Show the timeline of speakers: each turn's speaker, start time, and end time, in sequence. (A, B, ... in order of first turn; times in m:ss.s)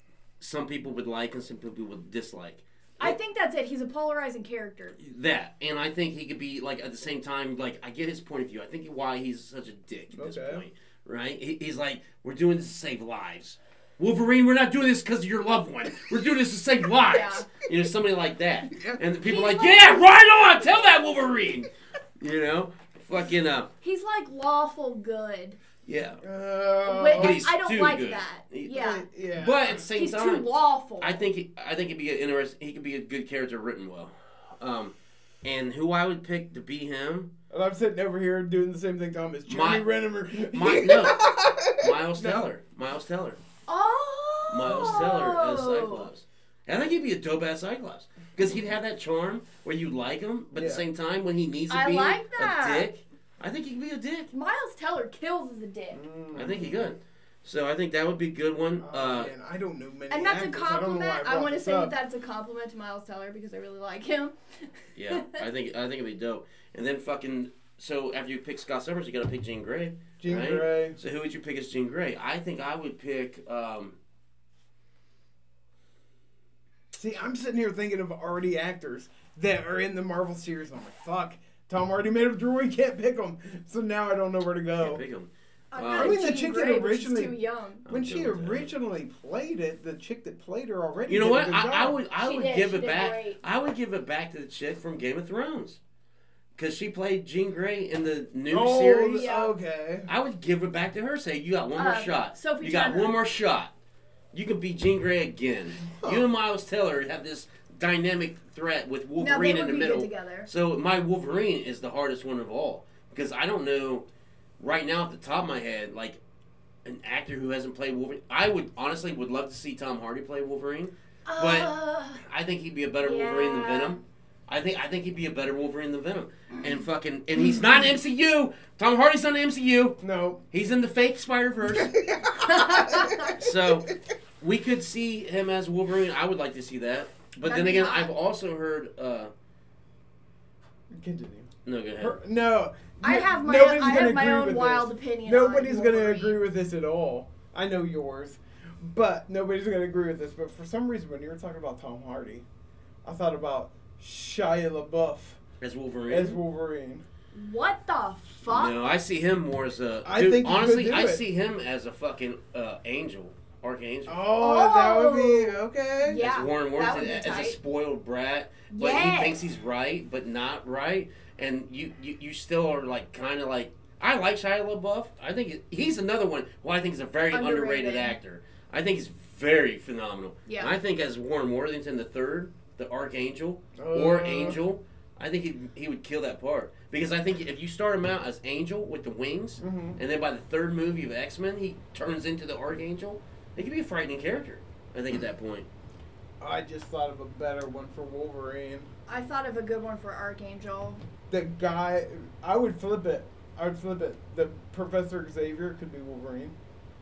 0:00.4-0:03.2 A
0:03.0-0:05.0 B
0:05.0-0:23.7 A
0:10.1-0:10.6 C
0:17.0-0:17.5 B
0:18.7-0:19.0 C
0:19.2-0:20.1 B
0:23.8-0:25.6 B
0:25.8-0:26.2 A
0:26.2-0:27.4 C
0:26.8-0:29.1 B
0:27.1-0:28.8 A
0:28.7-0:29.8 C
0:29.3-0:37.3 A
0:29.9-0:31.3 B
0:37.5-0:42.5 C
0:39.5-0:41.2 A
0:41.8-0:43.4 A
0:43.7-0:46.1 B
0:44.5-0:54.3 A
0:50.5-0:50.8 C
0:51.7-0:52.9 B
0:54.3-0:56.0 B
0:55.9-0:56.9 C
0:56.3-0:59.3 A
0:58.8-1:02.0 C
1:00.1-1:05.4 B
1:05.0-1:14.0 A
1:10.2-1:11.0 C
1:16.9-1:25.0 C
1:24.8-1:26.2 A
1:25.7-1:27.8 B
1:25.9-1:32.0 C
1:27.8-1:28.7 A
1:31.1-1:35.8 A
1:32.2-1:33.4 B
1:36.6-1:39.3 A
1:38.5-1:40.1 C
1:39.1-1:39.6 B
1:40.1-1:43.7 A
1:41.7-1:43.2 B
1:44.3-1:54.0 A
1:45.8-1:46.3 C
1:49.2-1:50.5 B
1:54.6-1:56.2 A
1:56.8-2:10.0 A
2:01.3-2:02.2 B
2:03.0-2:04.0 B
2:10.0-2:10.4 C
2:10.5-2:11.9 A
2:11.7-2:13.5 C
2:12.5-2:13.2 B
2:13.3-2:19.3 A
2:17.4-2:18.1 B
2:20.9-2:32.4 C
2:21.6-2:22.2 A
2:23.0-2:26.4 B
2:33.0-2:35.4 C
2:35.6-2:36.4 A
2:36.1-2:37.0 C
2:37.3-2:38.8 B
2:38.5-2:44.2 A
2:40.0-2:41.2 C
2:44.0-2:46.2 C
2:44.4-2:47.6 B
2:46.2-3:15.7 A
2:48.7-2:49.4 B
2:57.3-2:58.2 B
3:00.4-3:00.7 B
3:03.8-3:04.6 C
3:09.6-3:10.0 C
3:16.4-3:18.9 C
3:19.1-3:21.0 B
3:21.3-3:26.6 C